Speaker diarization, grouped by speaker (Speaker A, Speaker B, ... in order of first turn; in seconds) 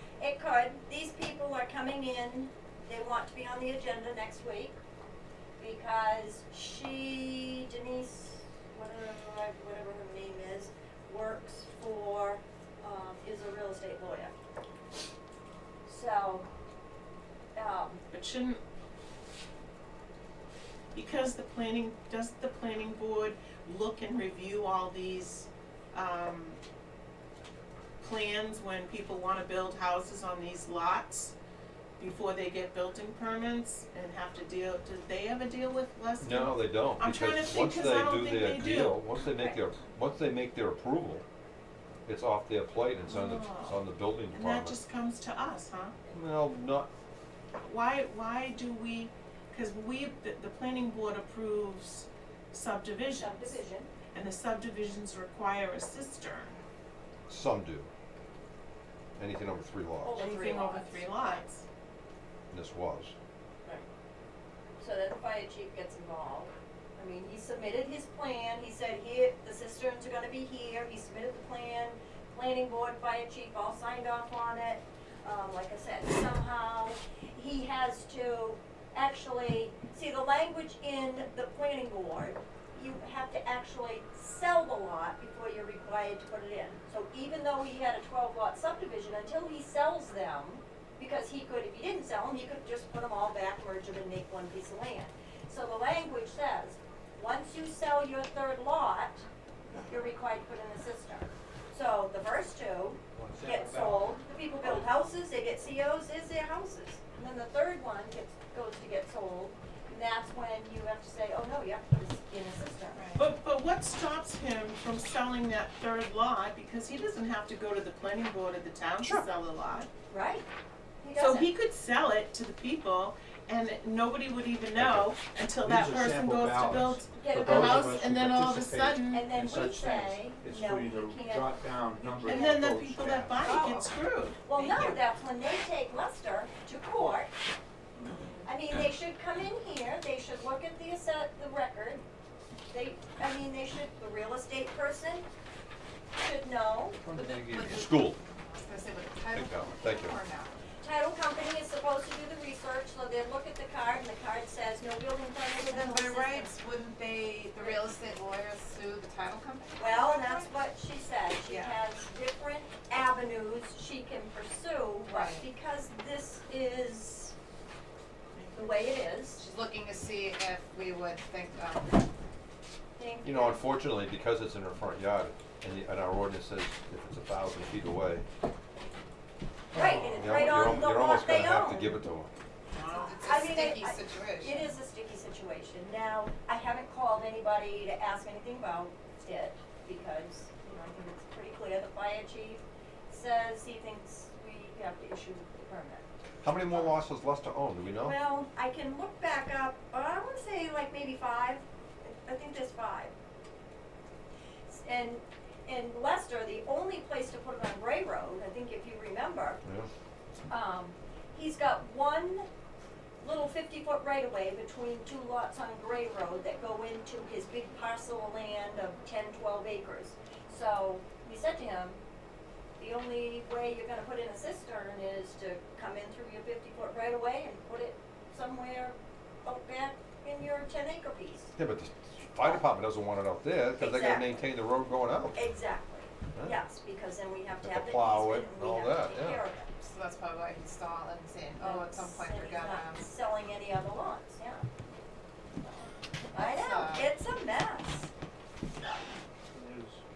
Speaker A: 0.2-4.8, 5.6-14.3, 15.9-16.5, 17.6-18.0, 39.3-39.6, 53.2-53.9, 60.0-61.4, 64.8-99.2, 99.9-113.3, 120.1-120.5, 121.0-121.5, 127.2-128.0, 129.1-131.5, 132.1-132.7, 133.4-133.8, 134.4-137.3, 138.4-142.1, 142.7-145.3, 146.2-147.0, 150.8-156.5, 157.6-157.9, 159.8-167.3, 168.5-169.4, 173.0-173.7, 179.7-182.0, 182.9-196.1, 196.6-196.9, 198.0-203.1, 204.7-209.6, 210.5-212.5, 213.2-222.0, 222.8-231.5, 233.8-234.5, 235.3-239.7, 241.6-244.7, 246.3-248.1
Speaker B: 18.1-18.6, 20.9-26.6, 28.0-31.3, 32.0-39.0, 43.1-45.9, 47.6-53.6, 54.1-56.6, 60.2-61.6, 113.0-119.9, 121.2-129.3, 132.2-134.4, 182.7-183.0
Speaker C: 36.2-41.2, 42.1-44.8, 46.1-46.9, 57.3-57.9, 59.2-60.2, 62.5-63.1, 147.7-148.2, 149.3-150.2, 173.2-178.3, 180.0-182.3, 196.4-198.2, 209.7-209.9, 231.6-235.4, 237.6-239.4
Speaker D: 103.2-104.1, 124.8-133.4, 147.1-147.9
Speaker E: 147.1-150.7, 155.6-160.5, 161.5-161.8, 165.1-165.5, 169.4-172.1, 182.8-184.7, 239.8-243.1, 246.3-247.1